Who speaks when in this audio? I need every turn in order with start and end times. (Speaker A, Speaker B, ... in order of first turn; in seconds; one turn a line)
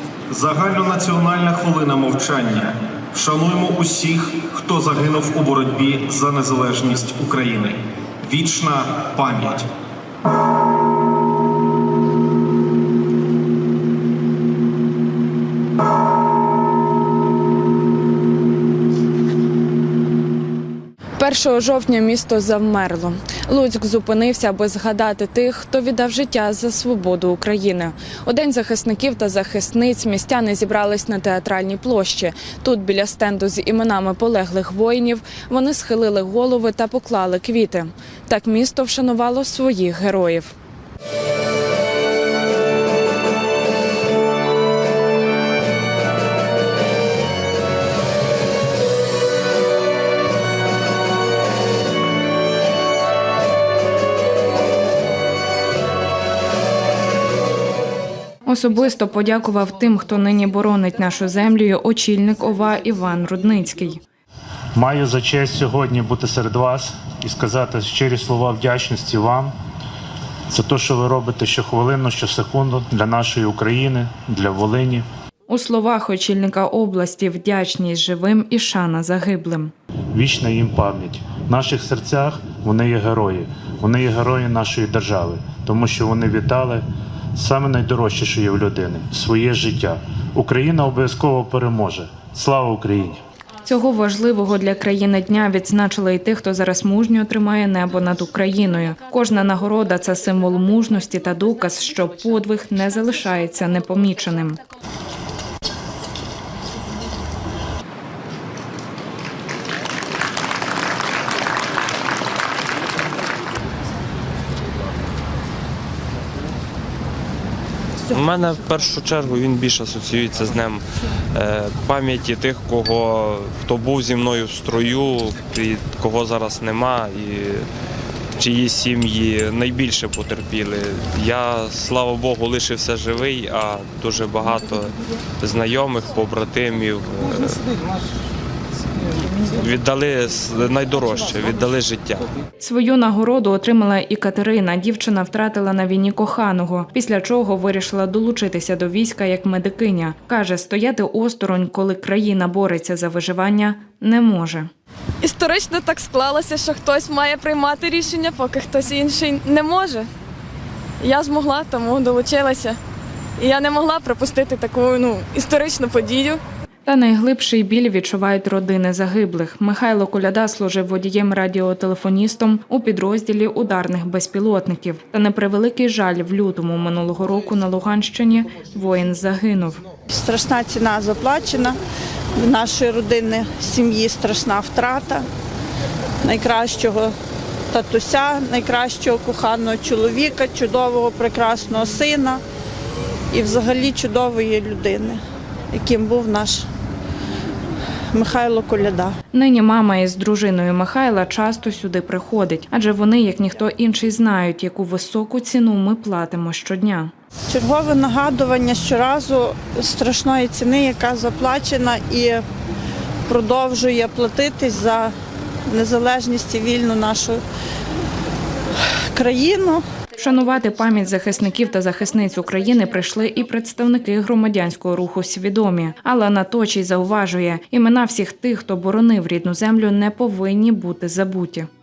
Speaker A: 0.3-9.7
Speaker B: 21.2-40.5
Speaker B: 58.5-64.0
Speaker C: 64.8-69.5
Speaker C: 70.5-75.0
Speaker B: 75.5-79.7
Speaker C: 80.1-93.2
Speaker B: 93.6-104.6
Speaker D: 118.1-127.7
Speaker D: 128.4-137.6
Speaker D: 139.5-142.3
Speaker B: 142.6-154.7
Speaker E: 155.2-160.1
Speaker E: 161.0-162.8
Speaker E: 163.4-166.4
Speaker B: 166.9-179.8
Speaker F: 180.1-181.8
Speaker F: 182.4-185.3
Speaker F: 186.2-187.1
Speaker F: 187.7-192.4
Speaker F: 193.3-195.2
Speaker F: 195.7-196.7
Speaker F: 198.1-199.2
Speaker B: 199.3-207.1
Speaker F: 207.5-212.4
Speaker F: 213.3-215.1
Speaker F: 215.7-217.4
Speaker F: 219.1-219.8
Speaker B: 220.2-231.7